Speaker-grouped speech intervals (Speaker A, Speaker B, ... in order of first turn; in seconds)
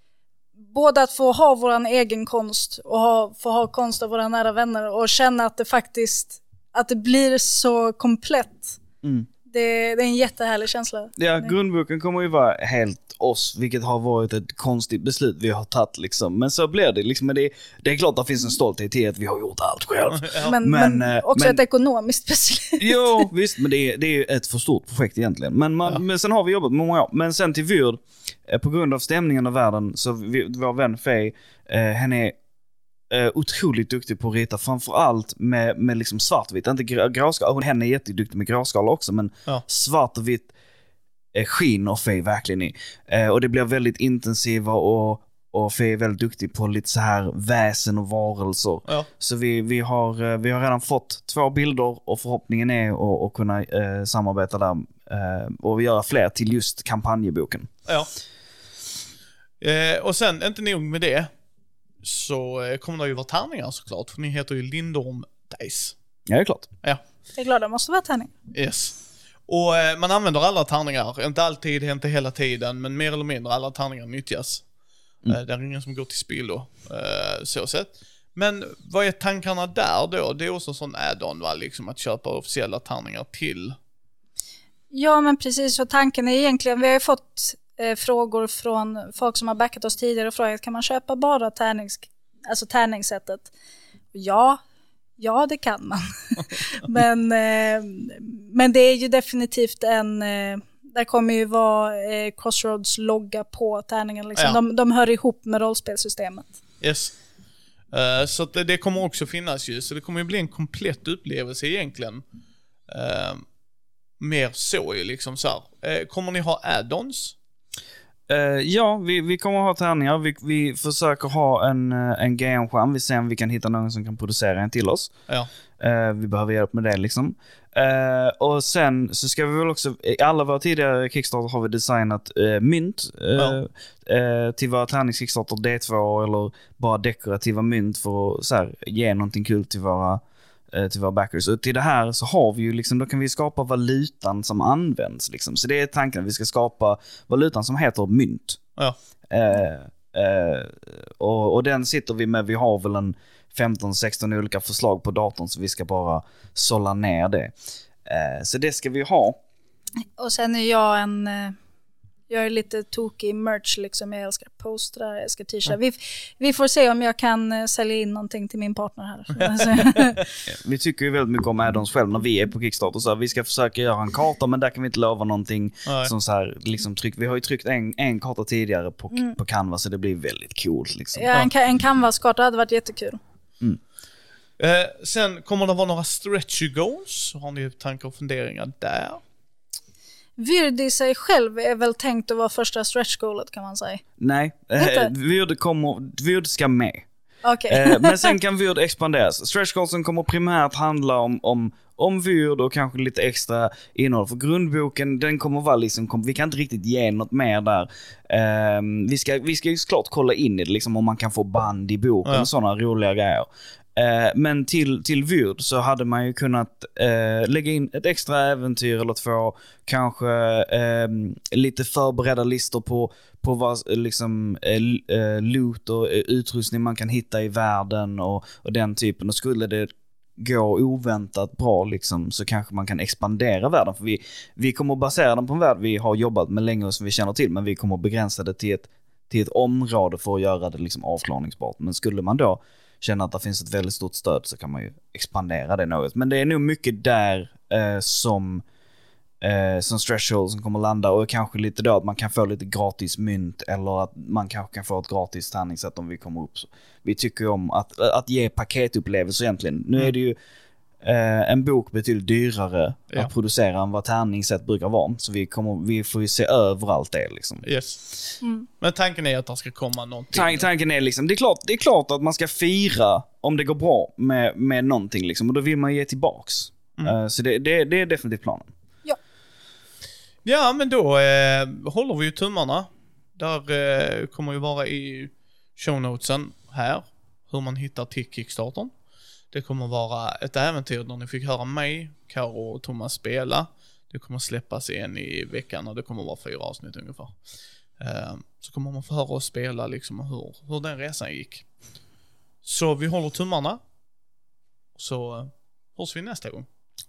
Speaker A: 0.7-8.8, 9.5-11.5, 20.4-23.2, 67.3-68.3, 84.9-93.5, 94.1-94.6, 95.2-106.5, 160.2-161.6, 162.3-170.2, 181.1-183.2, 190.4-194.0, 194.8-195.1, 197.4-198.3, 268.4-268.7
Speaker B: 9.0-9.3, 11.2-21.6, 22.8-32.4, 33.1-40.5, 41.3-57.7, 66.3-66.7, 118.3-125.1, 125.8-148.6, 149.3-157.5, 158.0-159.4, 170.5-181.2, 194.2-197.1, 197.7-248.6, 249.4-260.4, 261.0-267.6, 270.3-278.7
Speaker C: 20.1-20.5, 59.6-61.3, 62.0-66.0, 68.5-69.0, 69.5-74.6, 75.2-83.8, 106.8-107.1, 107.9-112.2, 112.9-113.4, 114.2-117.3, 175.8-176.1, 184.6-189.2, 267.6-270.6, 280.4-288.9, 289.5-297.4, 298.0-301.6, 302.6-303.8, 304.9-306.7